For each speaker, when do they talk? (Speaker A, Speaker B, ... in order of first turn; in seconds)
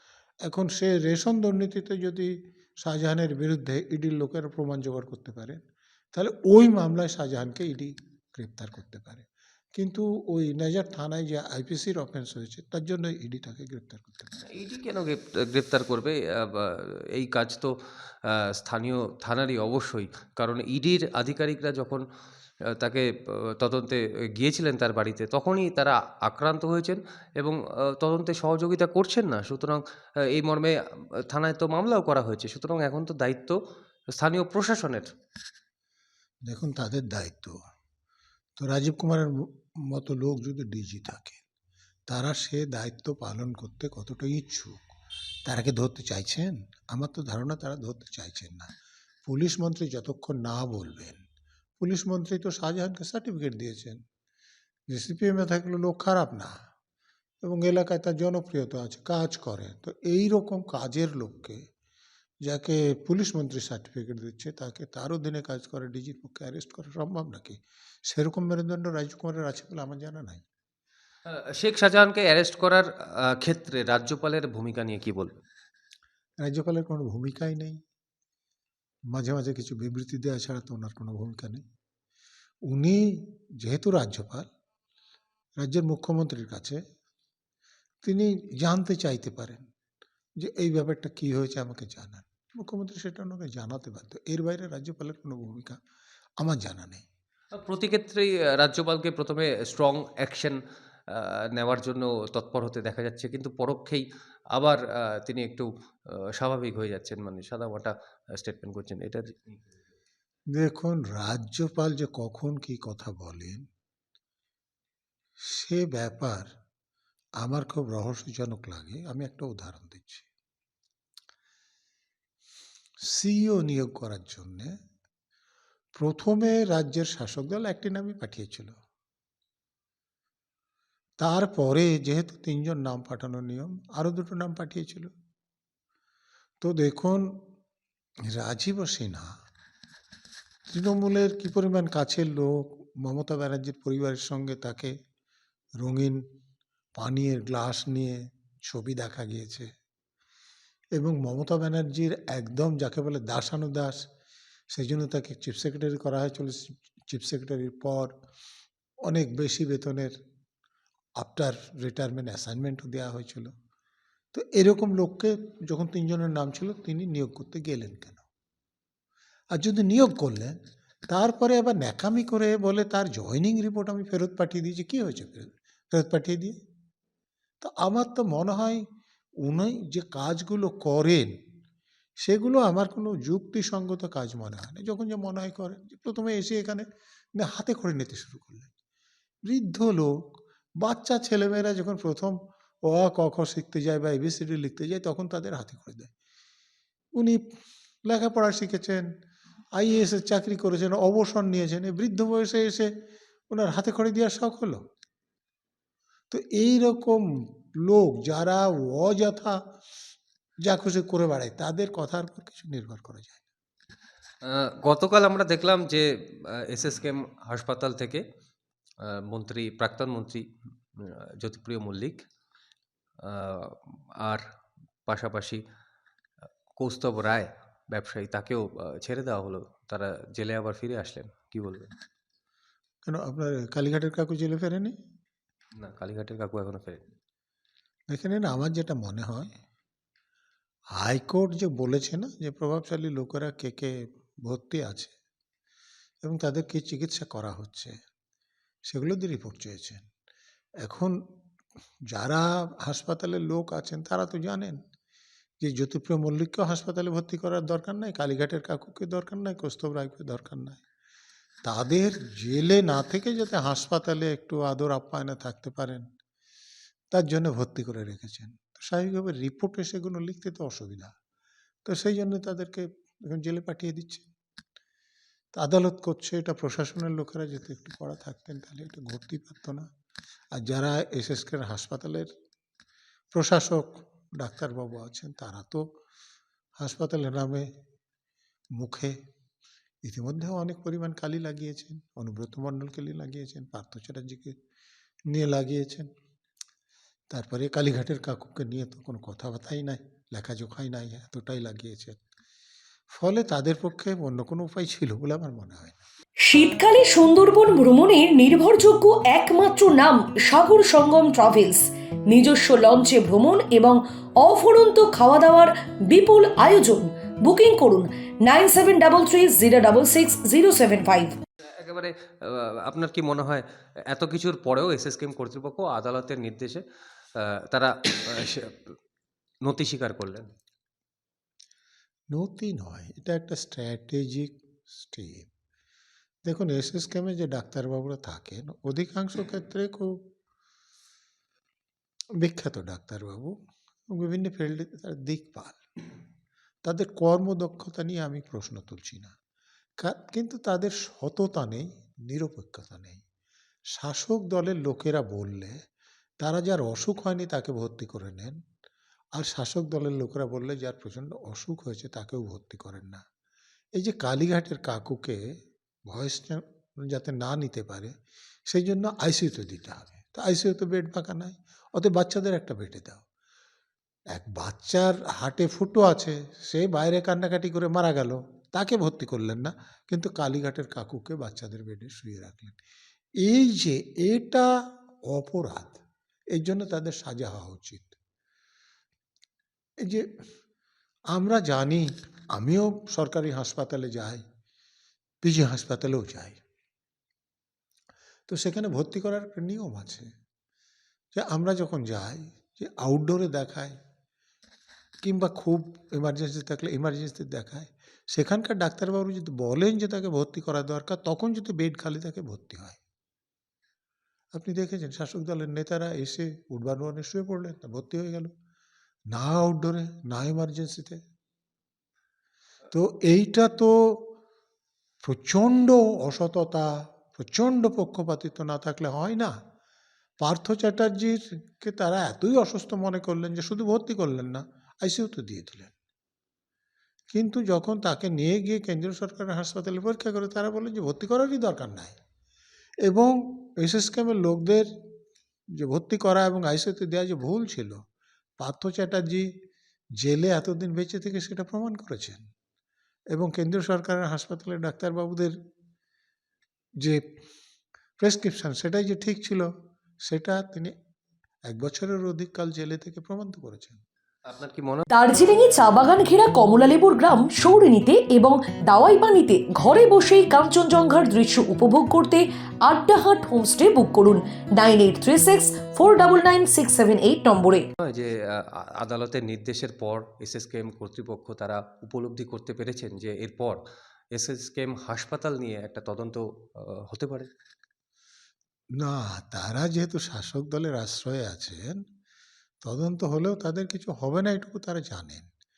Speaker A: 0.4-5.6, 6.1-14.4, 36.4-37.6, 38.6-41.4, 42.1-44.8, 45.5-48.7, 49.2-51.2, 51.8-54.0, 54.9-56.5, 57.4-61.6, 62.4-70.4, 76.4-77.8, 79.1-81.6, 82.7-84.5, 85.6-86.8, 88.0-89.7, 90.4-95.8, 96.4-97.0, 110.5-113.6, 115.5-116.5, 117.4-120.3, 123.1-124.8, 126.0-128.8, 131.2-135.1, 136.6-137.4, 138.3-139.3, 140.7-144.9, 145.8-146.2, 146.9-149.7, 150.9-154.1, 154.7-158.1, 159.0-160.1, 161.2-163.5, 164.3-168.2, 169.5-176.6, 177.6-178.8, 179.4-181.3, 182.2-188.7, 189.4-190.1, 190.8-196.1, 198.0-199.1, 199.7-202.9, 203.5-204.8, 206.3-209.6, 210.6-213.4, 233.0-234.9, 238.1-239.5, 240.9-245.1, 246.2-247.9, 248.9-250.0, 250.8-251.2, 252.1-254.8, 255.6-260.8, 261.6-266.1, 267.1-271.1, 271.8-274.3, 275.5-279.9, 280.5-282.3, 283.3-285.9, 286.8-287.7, 288.8-289.1, 290.0-294.6, 295.3-296.1, 297.3-302.2, 303.1-306.0, 332.3-335.5, 336.4-340.2, 342.4-343.6, 344.1-345.9, 346.8-349.3, 350.0-353.2, 353.9-355.8, 356.4-358.6, 359.4-363.2, 363.9-365.4, 366.1-368.1, 368.7-373.2, 374.3-382.8, 383.4-384.7, 385.3-386.0, 386.5-388.1, 390.0-390.3, 391.3-394.4, 395.4-396.6, 398.5-400.3, 401.3-403.9, 405.2-413.0, 414.5-418.5, 419.3-421.2, 422.9-424.3, 425.2-429.5, 430.4-435.9, 437.3-442.2, 443.0-444.9, 445.7-448.0, 448.6-449.5, 450.2-452.4, 453.3-455.5, 458.2-459.7, 460.2-460.9, 461.7-464.0, 489.0-492.0, 492.8-495.5
Speaker B: 14.4-22.0, 22.7-33.6, 34.1-35.1, 71.3-75.3, 97.5-109.6, 214.4-218.2, 219.0-220.4, 221.0-222.2, 223.2-224.4, 225.1-225.6, 226.8-231.9, 235.8-237.0, 321.8-326.8, 327.4-328.9, 329.6-330.5, 464.5-465.1, 478.0-483.8, 484.3-487.5
Speaker C: 306.4-321.3, 465.1-477.9